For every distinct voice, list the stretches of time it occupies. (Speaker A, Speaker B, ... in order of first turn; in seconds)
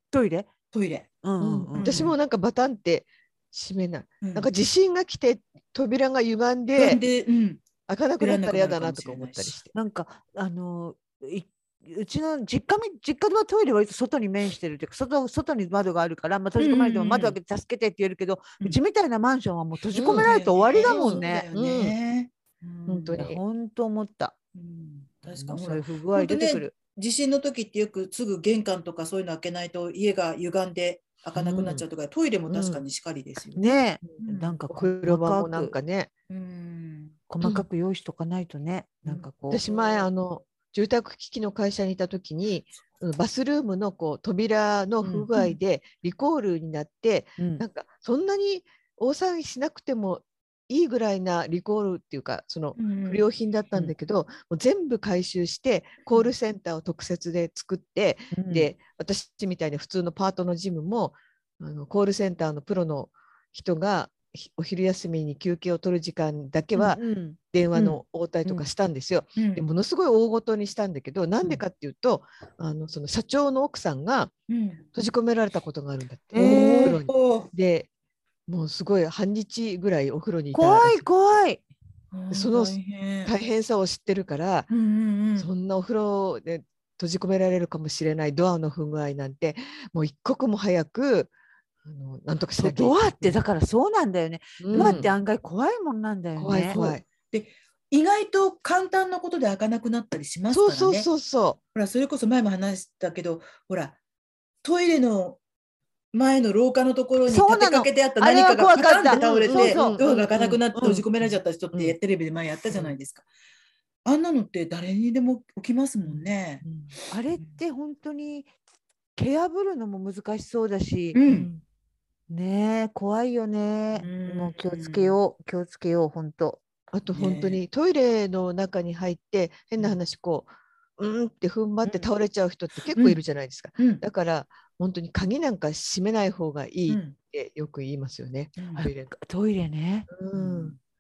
Speaker A: 0.1-0.5, 1.2-2.0, 9.7-21.5, 23.1-24.3, 25.3-26.7, 33.5-35.7, 37.3-39.6, 47.4-47.6, 58.3-58.7, 66.7-68.6, 76.3-77.0, 80.5-81.6, 92.6-96.8, 107.2-110.0, 110.7-111.0, 117.1-118.5, 119.2-121.2, 122.3-126.6, 138.7-140.1
Speaker B: 0.7-1.1, 1.8-2.1, 4.2-4.5, 6.7-7.7, 8.2-9.6, 16.6-17.4, 20.0-23.2, 24.5-34.6, 36.3-37.1, 39.0-40.1, 45.1-45.5, 52.8-53.2, 69.4-69.7, 74.5-74.8, 76.3-77.5, 82.1-83.3, 84.7-85.5, 94.7-95.0, 96.7-101.1, 101.7-104.0, 104.6-105.4, 106.1-113.2, 114.0-116.6, 121.1-121.5, 124.0-125.2, 127.1-127.6, 132.9-133.2, 133.8-134.0, 136.9-137.2, 138.6-138.9, 140.3-140.8
Speaker C: 1.4-7.0, 7.9-9.7, 19.9-20.3, 20.8-21.9, 22.9-23.4, 31.4-31.8, 32.5-32.8, 34.7-36.1, 39.5-74.3, 74.9-77.9, 78.5-81.0, 82.3-84.7, 85.4-91.3, 91.8-93.3, 94.6-95.1, 96.4-97.0, 100.5-101.6, 109.1-112.0, 116.1-116.9, 121.2-121.6, 126.9-139.1, 140.1-140.8